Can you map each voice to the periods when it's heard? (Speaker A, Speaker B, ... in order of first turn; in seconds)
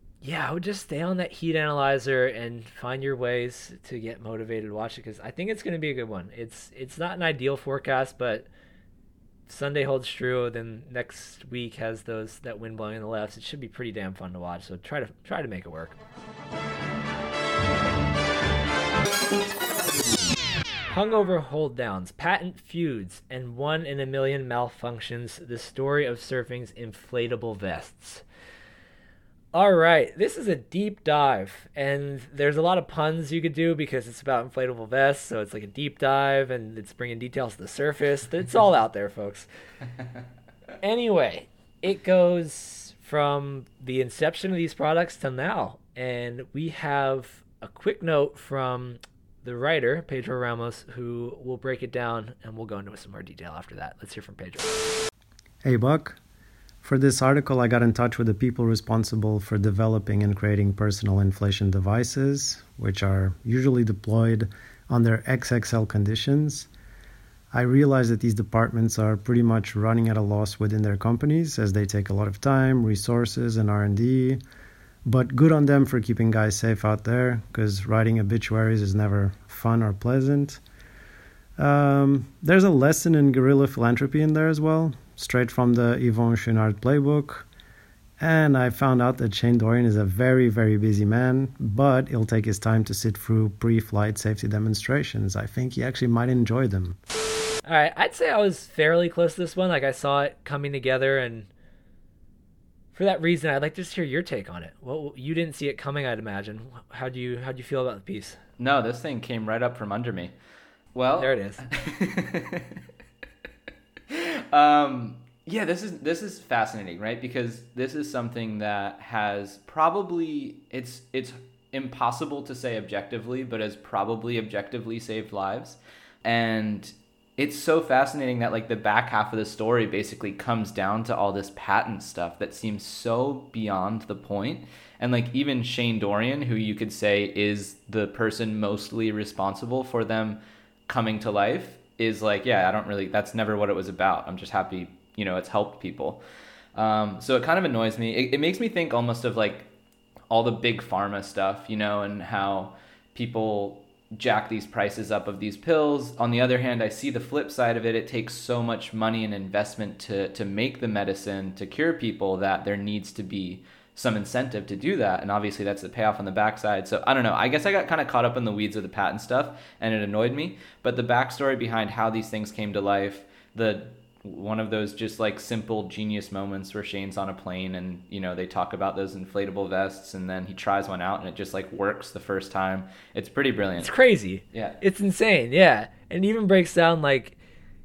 Speaker A: 0.2-8.5, 9.5-16.0, 20.9-28.2, 29.5-39.5, 40.8-54.7, 97.7-101.5, 102.9-108.4, 111.2-111.6, 183.8-187.3
Speaker B: 55.6-56.2, 56.8-66.7, 67.5-74.4, 75.0-80.6, 81.6-87.5, 88.2-97.0
Speaker C: 108.6-110.3, 110.9-112.8, 114.1-146.2, 146.7-149.7, 150.3-183.9, 184.5-184.8